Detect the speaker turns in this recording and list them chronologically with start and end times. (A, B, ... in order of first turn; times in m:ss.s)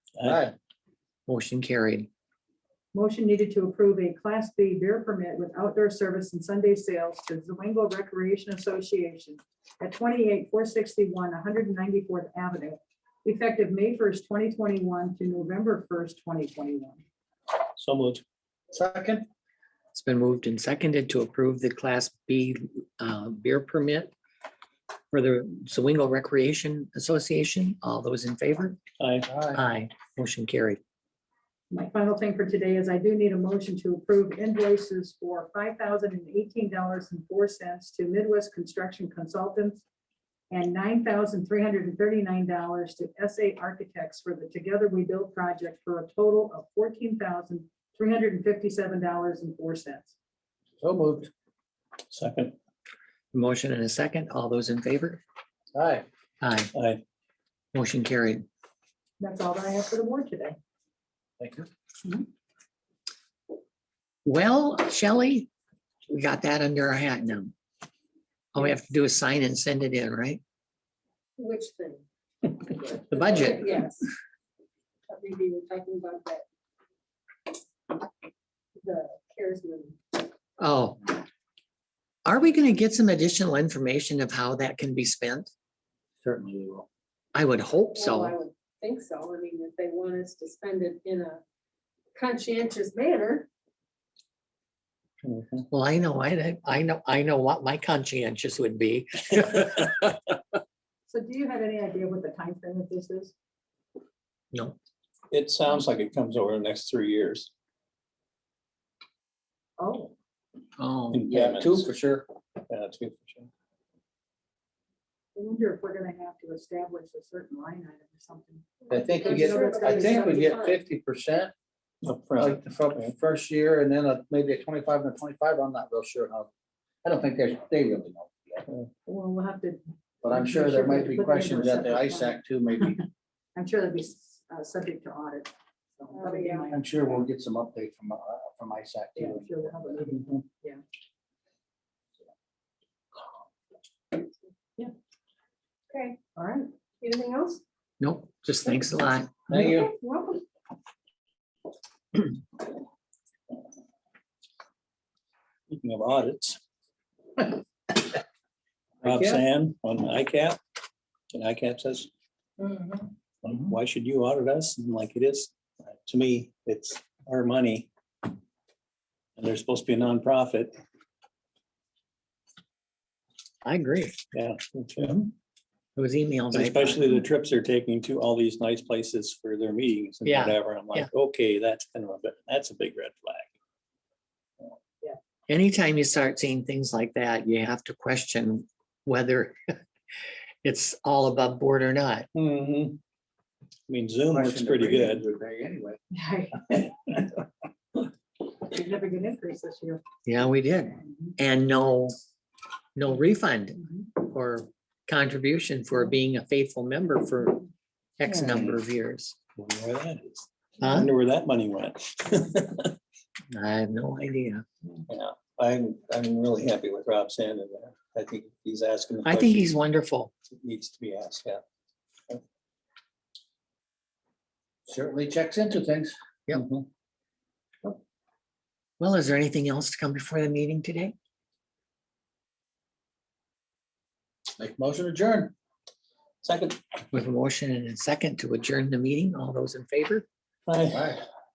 0:00.2-0:00.4 A
0:00.2-0:00.5 B
0:01.3-0:02.1 C
0:02.9-0:17.0 D
0:17.8-0:18.2 A
0:18.7-0:19.3 B
0:19.9-0:24.1 C
0:25.1-0:28.8 C
0:29.0-0:29.3 A
0:29.3-0:29.6 B
0:29.5-0:30.8 C
0:31.7-0:39.8 D
0:40.5-0:50.1 D
0:50.8-0:51.3 B
0:52.1-0:52.6 A
0:53.3-0:55.2 C
0:55.7-0:56.0 B
0:56.4-0:56.7 C
0:56.7-0:57.0 A
0:57.7-0:58.4 C
0:59.2-1:00.6 D
1:01.4-1:01.7 B
1:04.2-1:05.5 C
1:06.1-1:07.5 C
1:08.5-1:10.4 C
1:11.4-1:12.0 E
1:12.6-1:14.1 E
1:13.1-1:13.7 C
1:15.1-1:16.4 E
1:18.8-1:20.2 E
1:20.6-1:21.1 C
1:22.2-1:25.5 C
1:26.2-1:26.9 B
1:27.3-1:28.3 C
1:27.9-1:31.4 E
1:32.1-1:33.5 E
1:35.7-1:40.2 C
1:41.1-1:43.3 D
1:45.3-1:47.5 A
1:49.8-1:50.1 D
1:50.8-1:51.2 C
1:51.1-1:51.9 A
1:51.3-1:52.3 B
1:52.7-1:53.5 A
1:55.4-2:00.7 D
1:58.8-2:00.7 E
1:58.9-2:01.5 B
2:02.0-2:03.1 A
2:02.4-2:06.5 B
2:07.0-2:08.7 B
2:09.1-2:13.0 D
2:10.2-2:13.0 B
2:13.6-2:17.2 D
2:16.2-2:16.7 E
2:16.7-2:20.4 B
2:19.2-2:20.8 D
2:25.9-2:26.2 E
2:26.4-2:26.7 D
2:27.0-2:27.6 E
2:28.0-2:29.4 C
2:29.5-2:30.4 E
2:29.5-2:29.9 B
2:35.7-2:36.6 A
2:39.0-2:39.4 B
2:39.0-2:40.6 A
2:41.3-2:42.1 A
2:43.4-2:45.5 A
2:46.1-2:47.9 A
2:49.4-2:50.8 A
2:53.6-2:54.2 C
2:54.3-2:55.2 A
2:56.0-2:57.0 C
2:56.5-3:03.5 A
3:00.2-3:01.1 C
3:05.5-3:09.8 C
3:10.6-3:12.3 C
3:12.3-3:13.0 A
3:13.9-3:15.2 A
3:14.3-3:16.0 B
3:16.1-3:16.9 D
3:18.5-3:20.0 D
3:20.2-3:22.2 C
3:21.0-3:21.3 D
3:23.0-3:27.7 C
3:28.2-3:29.4 C
3:28.3-3:28.8 A
3:29.6-3:33.0 A
3:30.8-3:31.1 C
3:33.5-3:34.6 C
3:35.1-3:39.7 A
3:39.2-3:40.3 C
3:40.5-3:41.6 A
3:44.9-3:46.1 B
3:46.5-3:46.8 A
3:49.0-3:51.2 C
3:54.6-3:55.5 B
3:56.4-3:56.8 A
3:57.1-4:00.3 C
4:00.7-4:01.2 A
4:00.9-4:01.2 B